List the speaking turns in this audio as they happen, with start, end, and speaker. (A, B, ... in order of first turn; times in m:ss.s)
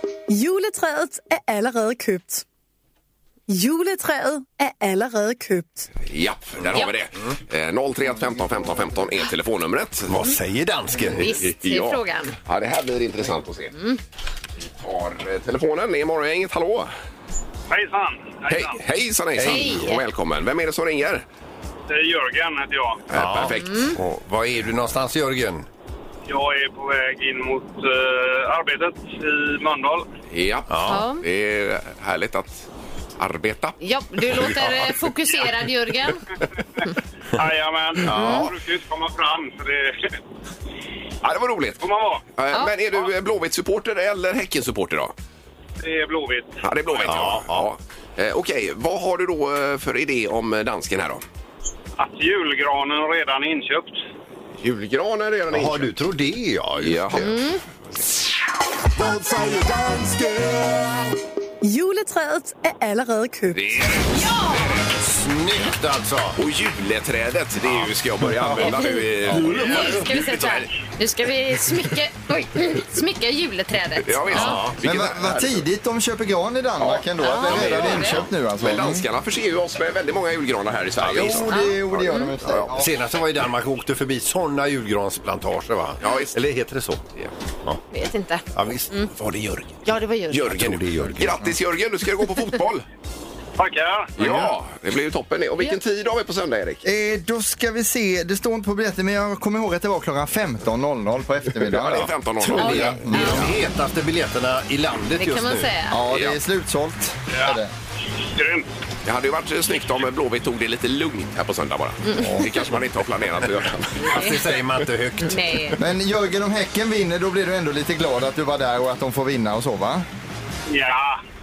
0:00.3-0:02.4 A
0:03.5-0:05.9 A
0:06.0-0:10.3 B
0:06.7-0:07.3 C
0:10.1-0:11.4 C
0:11.0-0:12.4 D
0:11.4-0:13.7 B
0:14.8-0:16.9 B
0:17.7-0:18.8 E
0:18.5-0:21.2 B
0:19.4-0:19.9 C
0:19.4-0:20.0 D
0:21.9-0:23.0 E
0:23.1-0:24.0 B
0:23.1-0:25.7 C
0:23.6-0:24.0 D
0:26.3-0:30.1 E
0:30.3-0:32.7 B
0:30.7-0:31.0 C
0:30.9-0:31.2 D
0:33.2-0:33.8 B
0:33.8-0:36.2 D
0:34.4-0:34.8 C
0:37.4-0:40.2 E
0:38.1-0:38.5 C
0:38.1-0:38.5 D
0:38.2-0:38.5 B
0:41.2-0:45.1 B
0:41.8-0:42.2 E
0:45.8-0:46.6 E
0:46.6-0:51.2 B
0:47.1-0:47.7 C
0:52.0-0:54.0 E
0:54.6-0:55.9 B
0:55.5-0:57.3 C
0:56.8-0:57.4 B
0:57.2-0:57.6 D
0:59.0-1:01.1 F
1:01.6-1:03.9 A
1:03.5-1:05.0 B
1:04.1-1:04.8 D
1:05.1-1:06.4 C
1:06.4-1:10.7 B
1:07.6-1:10.1 C
1:08.6-1:14.6 D
1:14.0-1:15.6 B
1:14.3-1:14.8 C
1:14.8-1:19.1 G
1:16.8-1:21.5 B
1:17.2-1:18.2 D
1:21.0-1:21.5 C
1:21.1-1:23.0 G
1:21.5-1:22.3 D
1:22.4-1:22.7 B
1:22.8-1:27.0 C
1:26.0-1:26.4 B
1:27.9-1:29.1 D
1:28.5-1:28.9 C
1:29.2-1:29.8 B
1:29.9-1:30.5 D
1:30.3-1:32.9 B
1:30.4-1:31.6 C
1:33.6-1:34.4 E
1:34.2-1:36.8 B
1:36.8-1:43.5 G
1:41.6-1:43.4 B
1:42.5-1:45.7 C
1:42.6-1:43.5 D
1:45.2-1:46.0 D
1:45.9-1:47.7 G
1:46.1-1:46.4 B
1:47.3-1:47.6 E
1:48.4-1:48.7 E
1:49.0-1:54.1 B
1:52.0-1:52.5 D
1:52.2-1:52.5 G
1:54.0-1:54.4 D
1:54.0-1:55.7 C
1:55.2-1:55.8 D
1:55.8-2:00.1 G
2:00.7-2:01.2 E